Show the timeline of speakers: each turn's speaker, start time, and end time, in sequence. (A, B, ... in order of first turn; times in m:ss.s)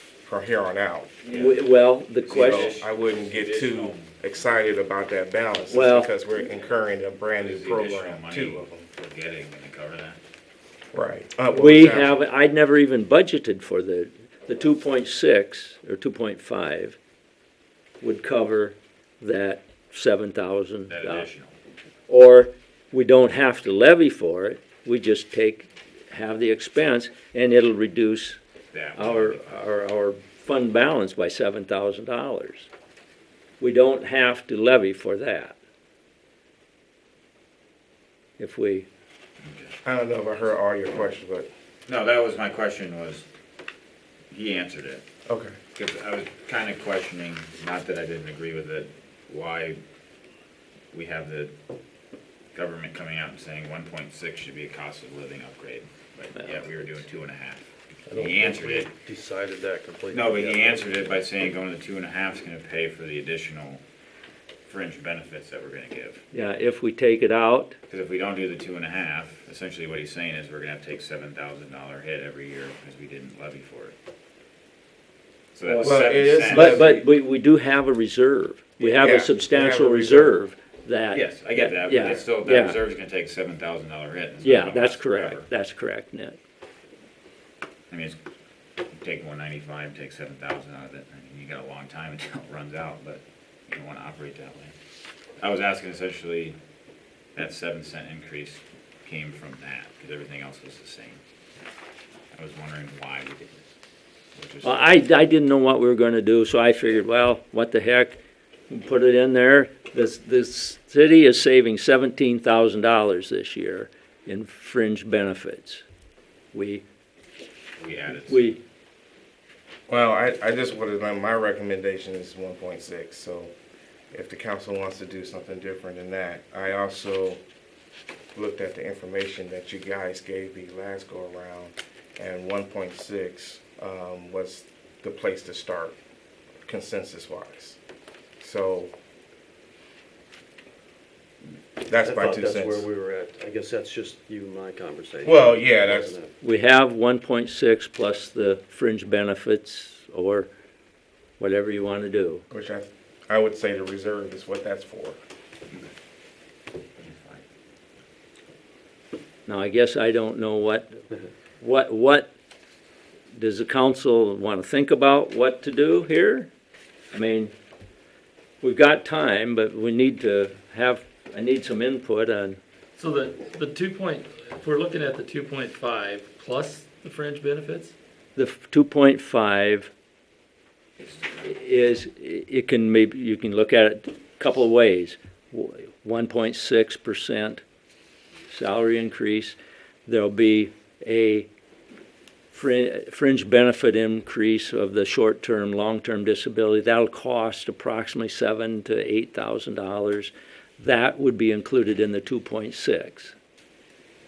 0:00.2-0:01.1 A
0:01.2-0:01.6 B
0:01.3-0:02.7 C
0:02.3-0:04.1 B
0:02.3-0:08.8 A
0:05.7-0:06.1 C
0:07.4-0:10.2 B
0:10.9-0:12.2 A
0:11.5-0:17.0 C
0:18.0-0:21.3 C
0:20.9-0:21.5 B
0:22.1-0:28.4 C
0:28.7-0:29.6 B
0:28.9-0:32.7 C
0:33.6-0:35.6 C
0:38.4-0:38.9 C
0:39.4-0:39.7 B
0:39.8-0:41.5 A
0:41.9-0:43.2 B
0:44.3-0:45.0 B
0:45.3-0:45.6 A
0:45.7-0:49.8 B
0:50.9-0:51.5 B
0:52.5-0:58.9 B
0:56.4-0:56.9 C
0:58.1-1:01.0 D
1:00.1-1:03.8 B
1:04.7-1:06.2 B
1:06.3-1:07.7 C
1:07.9-1:13.9 B
1:15.5-1:16.9 B
1:15.6-1:22.8 C
1:15.8-1:17.1 A
1:18.8-1:20.4 A
1:21.1-1:25.5 B
1:24.4-1:26.4 C
1:27.9-1:28.2 B
1:28.9-1:34.7 B
1:35.4-1:36.6 B
1:37.3-1:41.2 B
1:42.3-1:43.6 B
1:44.4-1:44.9 B
1:44.6-1:48.2 C
1:48.7-1:55.8 C
1:56.5-1:56.8 C
1:57.8-1:58.4 B
1:58.2-1:58.6 C
1:59.9-2:03.5 A
2:04.1-2:07.4 A
2:08.3-2:15.9 A
2:16.6-2:17.8 A
2:18.4-2:18.9 A
2:21.8-2:22.8 A
2:22.0-2:26.3 D
2:25.2-2:26.2 A
2:26.4-2:30.5 C
2:31.4-2:32.4 C
2:32.5-2:35.2 A
2:37.0-2:37.4 B
2:39.4-2:41.0 C
2:41.6-2:42.3 C
2:43.3-2:46.5 C
2:47.1-2:47.5 C
2:48.6-2:52.6 C
2:53.0-2:57.9 E
2:58.4-2:59.9 C
3:01.4-3:07.6 C
3:08.5-3:11.5 C
3:12.5-3:23.3 C